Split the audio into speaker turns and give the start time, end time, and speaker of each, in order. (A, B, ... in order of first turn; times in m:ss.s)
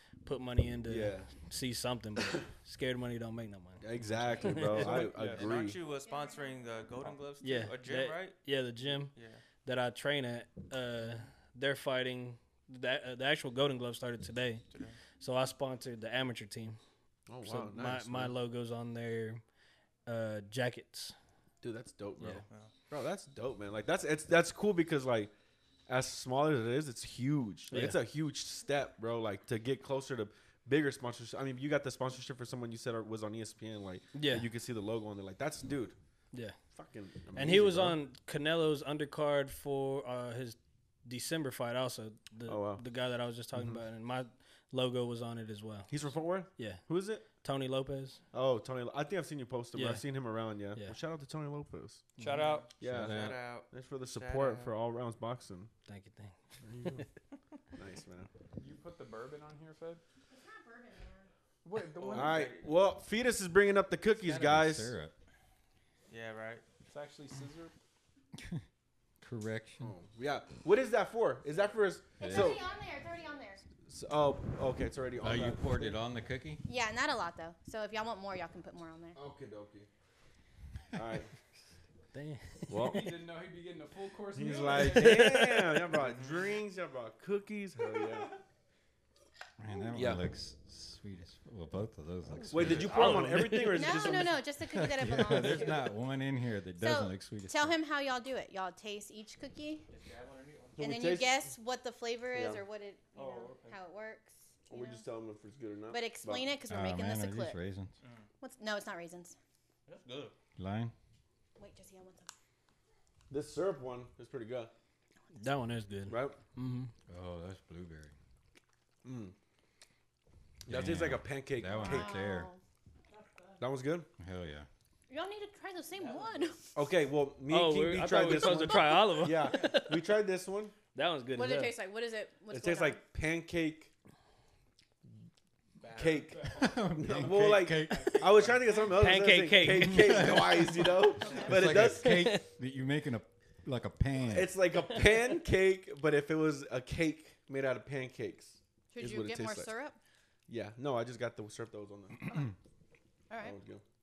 0:00.2-0:05.1 A
0:00.9-0:01.3 B
0:03.8-0:05.8 B
0:04.7-0:05.5 C
0:04.8-0:08.4 D
0:06.0-0:06.6 E
0:07.4-0:09.1 A
0:09.1-0:09.4 D
0:09.6-0:14.6 A
0:15.2-0:16.8 A
0:17.3-0:18.3 B
0:17.4-0:19.4 A
0:20.1-0:21.2 A
0:21.6-0:25.3 B
0:25.9-0:36.0 B
0:27.7-0:28.0 A
0:34.2-0:34.5 A
0:36.7-0:38.0 B
0:37.3-0:45.9 A
0:42.5-0:42.8 B
0:43.6-0:43.8 B
0:45.9-0:47.2 B
0:46.6-0:48.2 A
0:48.3-0:52.1 B
0:49.7-0:50.0 A
0:52.2-0:52.4 A
0:52.2-0:52.7 C
0:52.4-0:54.7 D
0:52.8-0:55.7 B
0:52.8-0:53.4 F
0:55.9-0:57.0 A
0:56.6-0:57.0 B
0:57.8-0:58.3 B
0:58.6-1:00.0 C
1:00.3-1:01.3 E
1:01.6-1:02.6 C
1:02.0-1:02.7 D
1:02.1-1:04.9 B
1:04.2-1:05.1 F
1:06.1-1:06.6 D
1:06.9-1:07.7 C
1:08.4-1:08.6 F
1:09.2-1:09.9 F
1:09.8-1:12.6 B
1:12.2-1:13.6 E
1:12.2-1:12.5 F
1:13.9-1:16.0 B
1:15.2-1:16.6 F
1:16.6-1:19.2 E
1:19.2-1:19.9 B
1:20.9-1:21.3 B
1:22.1-1:23.0 A
1:22.7-1:23.1 B
1:22.8-1:25.4 C
1:24.4-1:28.3 B
1:24.7-1:25.9 A
1:26.0-1:26.5 D
1:29.6-1:33.4 F
1:29.9-1:30.2 B
1:32.5-1:34.4 B
1:32.8-1:34.0 A
1:33.7-1:36.0 E
1:34.6-1:37.8 F
1:36.8-1:39.8 E
1:39.9-1:40.8 D
1:40.8-1:41.5 B
1:40.8-1:45.0 E
1:42.3-1:42.6 B
1:43.2-1:43.7 D
1:44.7-1:46.5 B
1:45.9-1:47.6 E
1:46.7-1:47.9 F
1:48.0-1:48.3 D
1:48.4-1:49.4 E
1:49.9-1:50.3 D
1:50.6-1:50.9 F
1:51.6-1:52.3 E
1:53.3-1:54.7 B
1:55.4-1:56.9 A
1:56.1-1:56.4 B
1:57.1-1:58.1 F
1:59.0-1:59.3 B
2:00.7-2:02.2 B
2:00.7-2:02.5 F
2:01.8-2:02.6 E
2:03.6-2:04.1 B
2:04.2-2:04.7 F
2:05.1-2:06.6 E
2:06.8-2:10.8 B
2:07.5-2:10.0 A
2:08.2-2:09.1 E
2:10.9-2:11.8 A
2:11.3-2:13.0 E
2:12.5-2:13.9 B
2:15.8-2:17.0 C
2:15.9-2:22.3 B
2:16.5-2:18.3 F
2:17.9-2:18.8 C
2:18.9-2:20.3 A
2:19.9-2:24.5 F
2:21.2-2:21.6 E
2:22.0-2:22.4 A
2:24.3-2:29.7 B
2:28.9-2:30.0 E
2:30.5-2:32.2 B
2:33.3-2:33.6 E
2:33.4-2:33.8 B